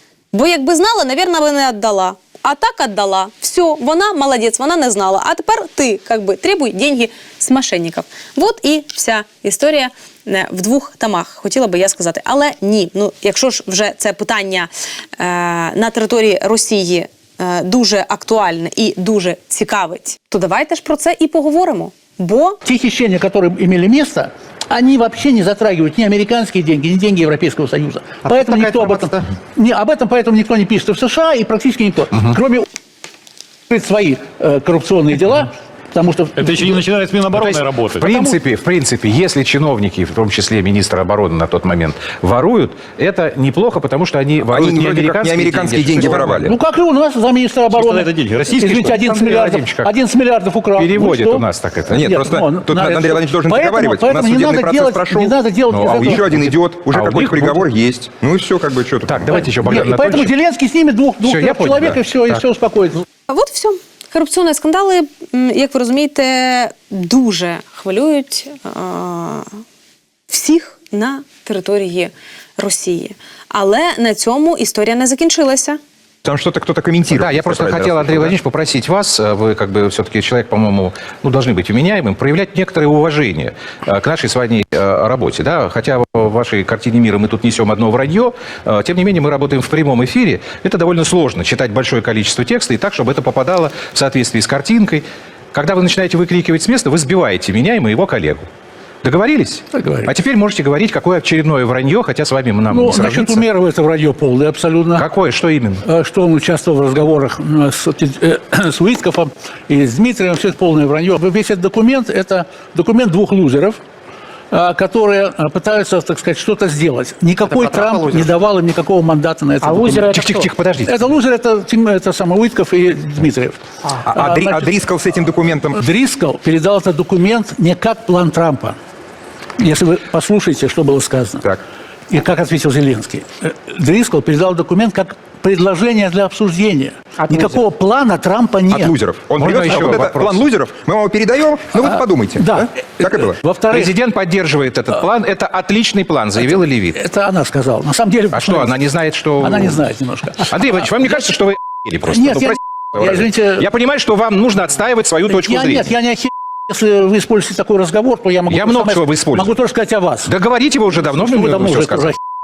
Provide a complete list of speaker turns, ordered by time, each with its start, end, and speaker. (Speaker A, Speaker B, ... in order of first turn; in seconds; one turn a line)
Speaker A: 0.3-22.6
Speaker B: 22.6-32.7
Speaker B: 33.7-36.7
Speaker C: 36.4-38.0
Speaker D: 37.4-46.5
Speaker B: 38.0-38.4
Speaker E: 44.4-46.5
Speaker B: 46.4-56.5
Speaker C: 47.7-49.2
Speaker D: 49.0-49.9
Speaker D: 50.8-52.3
Speaker E: 51.9-59.4
Speaker D: 55.7-57.7
Speaker D: 59.0-60.4
Speaker B: 59.3-63.0
Speaker D: 61.2-62.5
Speaker A: 63.3-69.6
Speaker A: 70.3-75.8
Speaker E: 76.2-78.4
Speaker D: 77.1-98.5
Speaker D: 99.0-103.5
Speaker B: 99.7-100.1
Speaker B: 102.7-105.1
Speaker D: 105.0-105.8
Speaker B: 105.8-113.8
Speaker B: 114.5-124.7
Speaker D: 120.0-120.9
Speaker E: 124.1-125.8
Speaker B: 125.8-128.8
Speaker B: 129.6-131.4
Speaker B: 132.1-139.0
Speaker E: 138.7-143.4
Speaker D: 139.4-140.5
Speaker B: 141.8-143.9
Speaker D: 143.7-147.0
Speaker B: 146.4-151.2
Speaker D: 148.3-149.8
Speaker D: 150.4-155.9
Speaker B: 152.1-153.7
Speaker B: 155.3-160.3
Speaker D: 158.5-159.6
Speaker D: 160.2-162.2
Speaker B: 161.0-162.2